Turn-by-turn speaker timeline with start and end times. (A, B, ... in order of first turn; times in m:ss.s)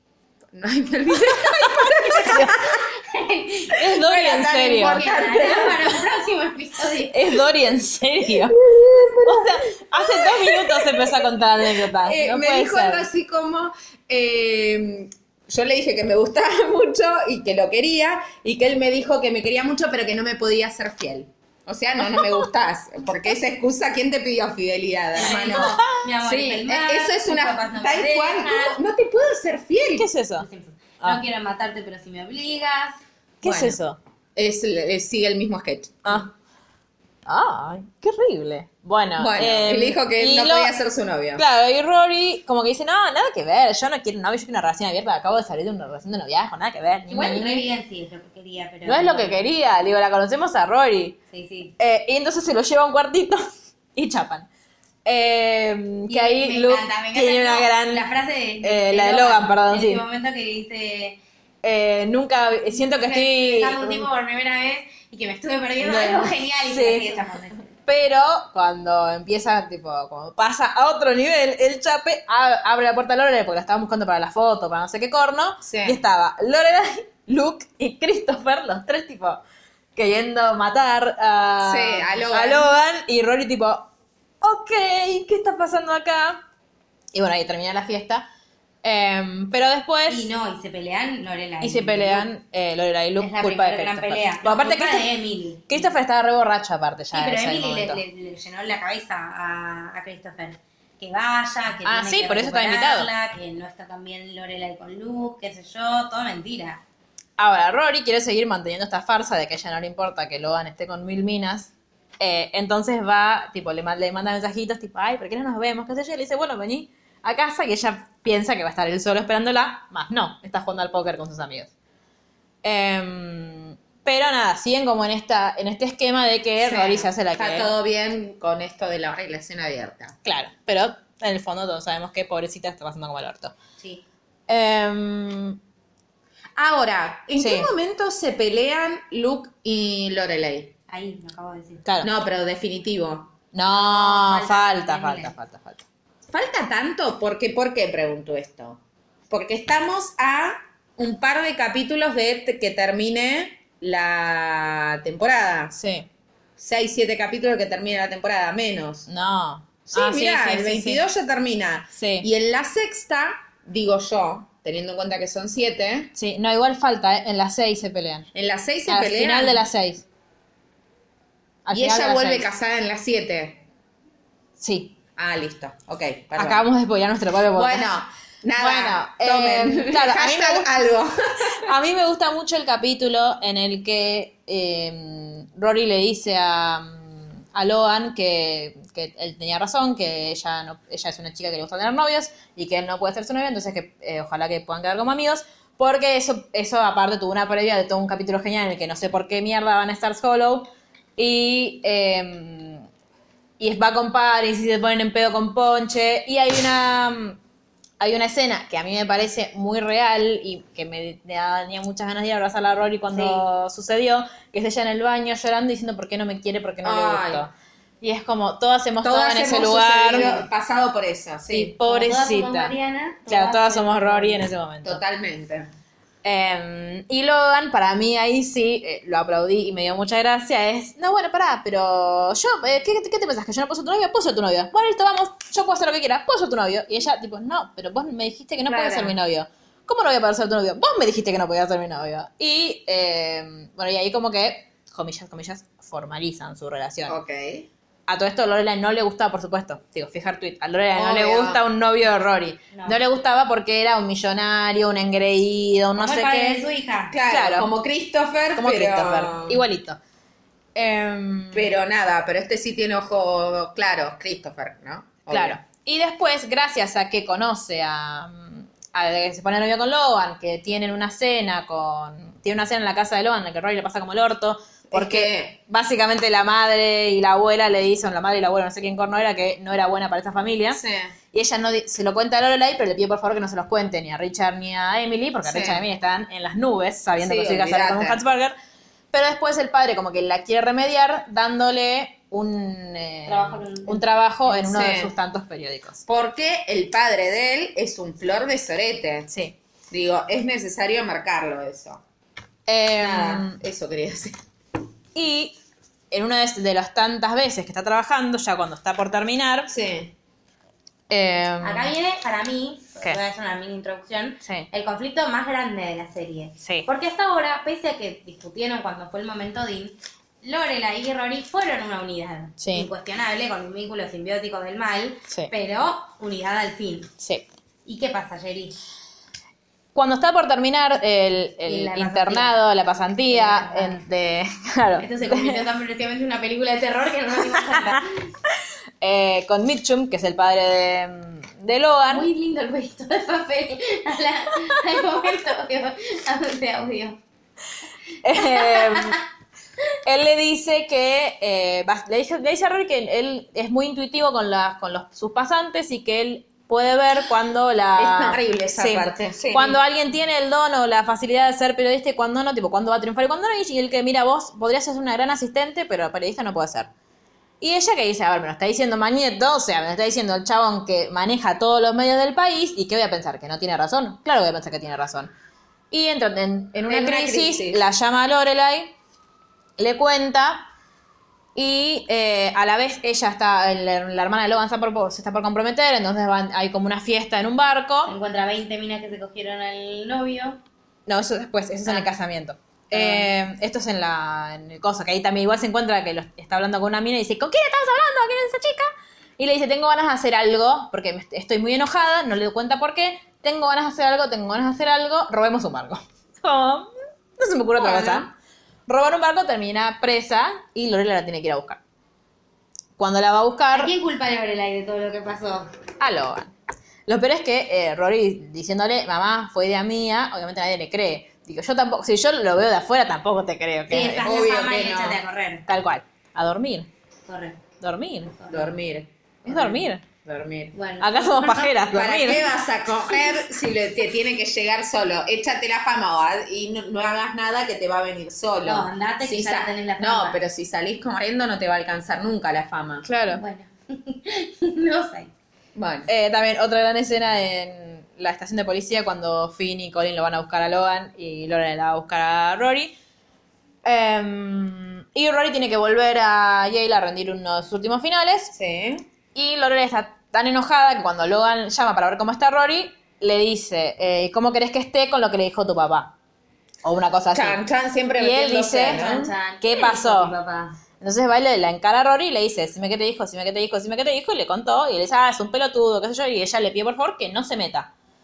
0:00.5-0:02.8 A
0:01.2-0:02.6 B
0:02.4-0:03.9 C
0:03.7-0:05.1 B
0:03.9-0:06.0 A
0:04.8-0:07.3 C
0:07.1-0:08.6 B
0:08.4-0:30.1 A
0:09.2-0:13.1 B
0:22.1-0:22.4 B
0:25.1-0:28.8 C
0:25.2-0:26.0 B
0:29.9-0:30.5 B
0:30.4-0:33.0 C
0:33.4-0:34.0 B
0:33.4-0:33.8 A
0:34.4-0:36.2 A
0:36.0-0:36.3 B
0:37.2-0:40.7 B
0:39.2-0:41.4 A
0:41.4-0:47.7 B
0:47.1-0:49.4 C
0:48.8-0:51.2 B
0:51.3-0:51.7 C
0:51.8-0:54.5 B
0:55.0-1:00.0 B
0:56.1-1:01.2 C
1:01.6-1:04.1 B
1:02.9-1:07.6 C
1:05.8-1:07.2 B
1:07.8-1:19.4 B
1:15.6-1:16.0 A
1:20.0-1:23.9 B
1:21.6-1:22.7 A
1:24.4-1:26.4 B
1:27.1-1:28.3 B
1:28.8-1:30.3 B
1:30.1-1:32.3 C
1:31.6-1:35.1 B
1:33.2-1:35.9 C
1:35.7-1:38.0 B
1:37.1-1:46.8 C
1:41.8-1:43.1 B
1:47.4-2:01.7 B
2:02.6-2:07.7 B
2:06.6-2:10.2 A
2:10.2-2:13.5 B
2:14.5-2:15.6 B
2:16.6-2:20.7 A
2:17.4-2:17.7 B
2:20.9-2:21.8 C
2:21.8-2:22.1 B
2:22.0-2:23.3 A
2:23.5-2:25.8 B
2:23.6-2:25.3 C
2:26.3-2:35.8 A
2:35.7-2:36.1 B
2:36.6-2:39.1 A
2:39.1-2:41.0 B
2:39.9-2:46.1 A
2:42.0-2:42.3 B
2:46.2-2:48.3 B
2:48.3-2:49.6 A
2:48.9-2:50.0 B
2:51.6-2:52.5 B
2:51.7-2:53.6 A
2:54.6-2:55.0 B
2:55.2-2:56.6 A
2:56.4-2:57.9 B
2:57.5-3:01.6 A
2:58.6-3:00.7 B
3:01.5-3:22.8 B
3:23.6-3:27.4 B
3:28.0-3:37.5 B
3:33.1-3:33.4 C
3:36.8-3:37.4 A
3:38.0-3:40.4 B
3:39.0-3:41.7 A
3:40.1-3:40.4 C
3:41.5-3:42.7 B
3:41.8-3:44.4 C
3:43.3-3:45.0 B
3:44.8-3:45.7 A
3:46.2-4:07.2 B
3:58.7-3:59.1 A
4:07.1-4:07.7 A
4:08.1-4:16.7 B
4:10.9-4:11.6 A
4:12.7-4:13.0 C
4:16.0-4:17.1 C
4:17.1-4:19.6 A
4:17.3-4:17.7 B
4:18.6-4:20.0 B
4:20.7-4:21.7 B
4:21.5-4:25.6 A
4:25.3-4:40.8 B
4:34.9-4:35.5 A
4:40.7-4:41.1 A
4:41.3-4:48.5 B
4:45.4-4:45.8 A
4:47.2-4:48.2 A
4:49.1-4:56.0 B
4:53.2-4:54.9 C
4:54.7-4:55.1 A
4:56.0-4:59.3 A
4:59.3-4:59.6 B
4:59.9-5:02.0 A
5:02.7-5:03.6 B
5:03.0-5:04.4 A
5:05.1-5:05.6 B
5:06.1-5:09.7 B
5:09.7-5:10.1 A
5:11.1-5:11.9 B
5:11.6-5:27.1 C
5:14.4-5:14.7 B
5:16.6-5:16.9 B
5:22.6-5:22.9 B
5:27.2-5:27.4 B
5:27.8-5:28.8 C
5:29.9-5:35.7 B
5:31.6-5:32.6 C
5:33.3-5:34.0 C
5:35.0-5:38.2 C
5:39.0-5:42.3 B
5:42.1-5:47.2 C
5:48.2-5:49.2 B
5:48.4-5:49.2 C
5:50.0-6:06.9 B
5:58.0-5:59.8 A
6:07.6-6:15.3 B
6:15.9-6:18.9 B
6:16.8-6:17.8 A
6:19.8-6:20.7 B
6:21.5-6:28.1 B
6:28.0-6:30.6 C
6:31.1-6:48.3 B
6:32.9-6:33.3 C
6:47.8-6:48.2 C
6:48.9-6:51.8 B
6:53.0-6:53.9 B
6:53.7-6:55.7 C
6:56.0-6:56.5 B
6:57.1-7:04.3 B
7:03.9-7:05.6 C
7:04.2-7:05.2 A
7:05.7-7:06.9 B
7:07.3-7:07.6 C
7:07.8-7:08.4 B
7:08.4-7:08.7 C
7:08.5-7:10.7 A
7:09.4-7:10.0 B
7:10.7-7:11.8 C
7:11.0-7:12.5 B
7:11.9-7:23.1 A
7:18.6-7:20.4 C
7:23.0-7:23.4 B
7:23.3-7:25.3 C
7:25.7-7:26.1 A
7:26.1-7:32.9 B
7:33.8-7:38.5 B
7:38.5-7:39.0 A
7:39.3-7:46.1 B
7:46.8-7:47.6 B
7:47.3-7:49.3 A
7:48.2-7:50.3 B
7:48.9-7:50.8 C
7:51.0-7:57.9 B